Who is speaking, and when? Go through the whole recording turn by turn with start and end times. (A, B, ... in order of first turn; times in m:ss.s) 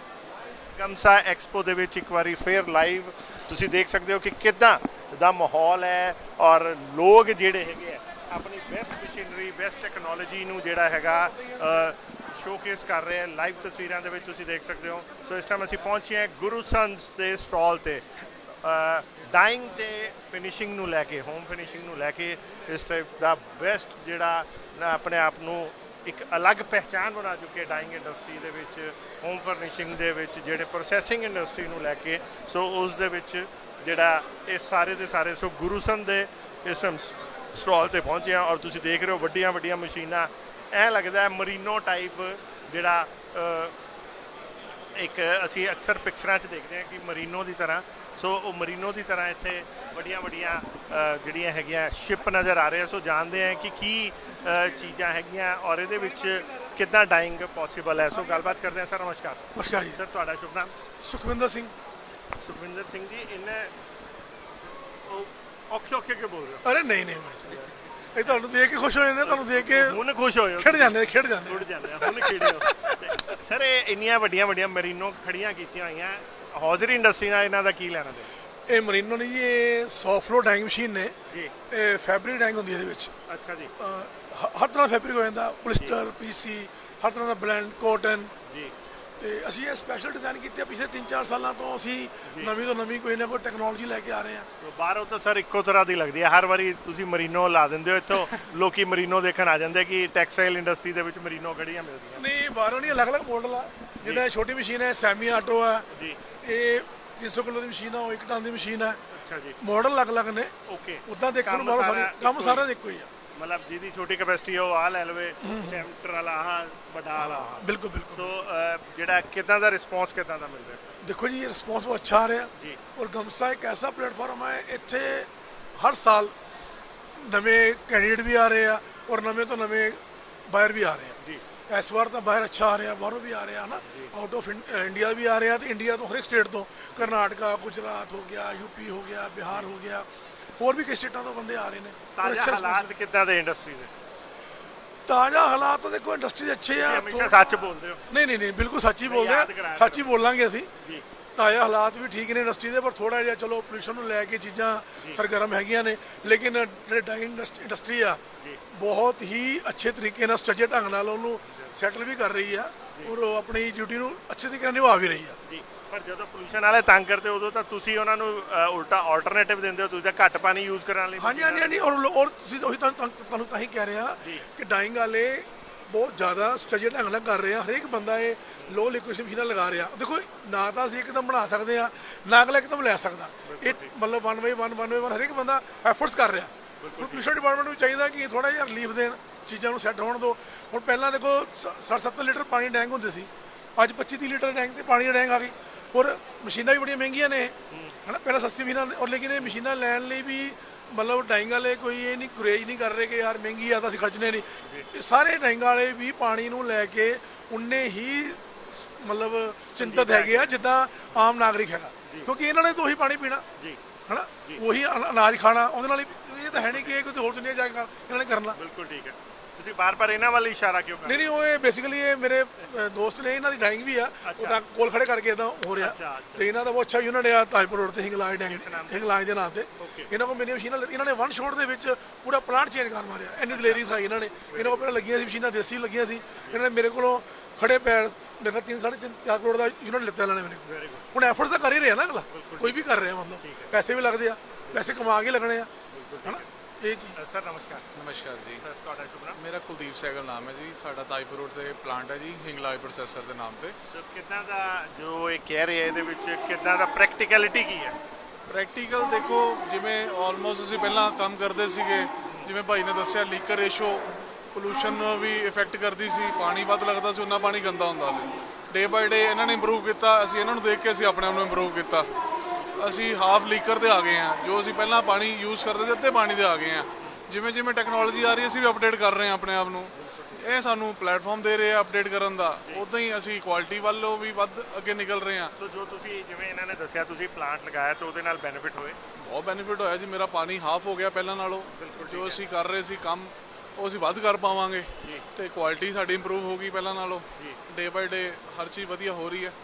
0:00.7-0:18.0 A
0:18.6-0:43.7 A
0:44.9-1:00.7 A
0:59.5-1:00.0 B
1:01.0-1:01.7 B
1:02.4-1:03.7 A
1:05.0-1:06.6 A
1:06.6-1:10.0 B
1:09.2-1:18.3 A
1:10.6-1:13.3 B
1:18.7-1:21.1 B
1:21.7-1:23.1 B
1:23.3-1:23.7 A
1:23.8-1:28.3 B
1:28.4-1:28.7 A
1:29.2-1:34.5 B
1:32.2-1:32.5 A
1:34.6-1:42.2 A
1:42.2-1:45.8 B
1:45.9-1:46.2 A
1:46.4-1:49.0 B
1:49.1-1:49.6 A
1:49.6-1:50.5 B
1:50.6-1:52.7 A
1:51.1-1:53.1 B
1:53.3-2:00.9 A
1:55.4-1:55.8 B
1:57.2-1:58.3 B
2:01.0-2:06.3 B
2:07.2-2:11.2 B
2:11.7-2:20.0 B
2:13.8-2:14.1 A
2:20.6-2:22.9 B
2:22.1-2:23.9 A
2:25.1-2:30.7 B
2:26.8-2:28.0 A
2:29.0-2:30.1 A
2:31.4-2:38.2 B
2:38.7-2:45.4 B
2:45.4-2:51.9 A
2:51.2-3:17.5 B
3:03.4-3:03.9 A
3:06.8-3:07.2 A
3:17.7-3:18.0 A
3:18.0-3:33.4 B
3:29.8-3:30.5 A
3:34.1-3:38.6 B
3:36.6-3:36.9 A
3:38.5-3:41.2 A
3:41.0-4:05.7 B
3:44.2-3:44.6 A
3:45.8-3:46.4 A
3:48.5-3:49.1 A
3:49.8-3:50.1 A
3:53.5-3:53.8 A
3:54.5-3:54.8 A
4:00.6-4:01.1 A
4:02.3-4:02.8 A
4:03.4-4:03.7 A
4:04.6-4:04.9 A
4:05.9-4:06.5 A
4:06.2-4:07.2 B
4:07.2-4:07.8 A
4:07.9-4:08.6 C
4:08.6-4:09.4 A
4:09.4-4:13.7 C
4:13.9-4:18.0 A
4:18.5-4:32.1 C
4:22.2-4:22.5 A
4:32.6-4:32.9 A
4:32.8-4:45.5 C
4:40.0-4:40.4 A
4:45.6-4:49.0 A
4:49.2-4:59.5 C
4:51.8-4:52.4 A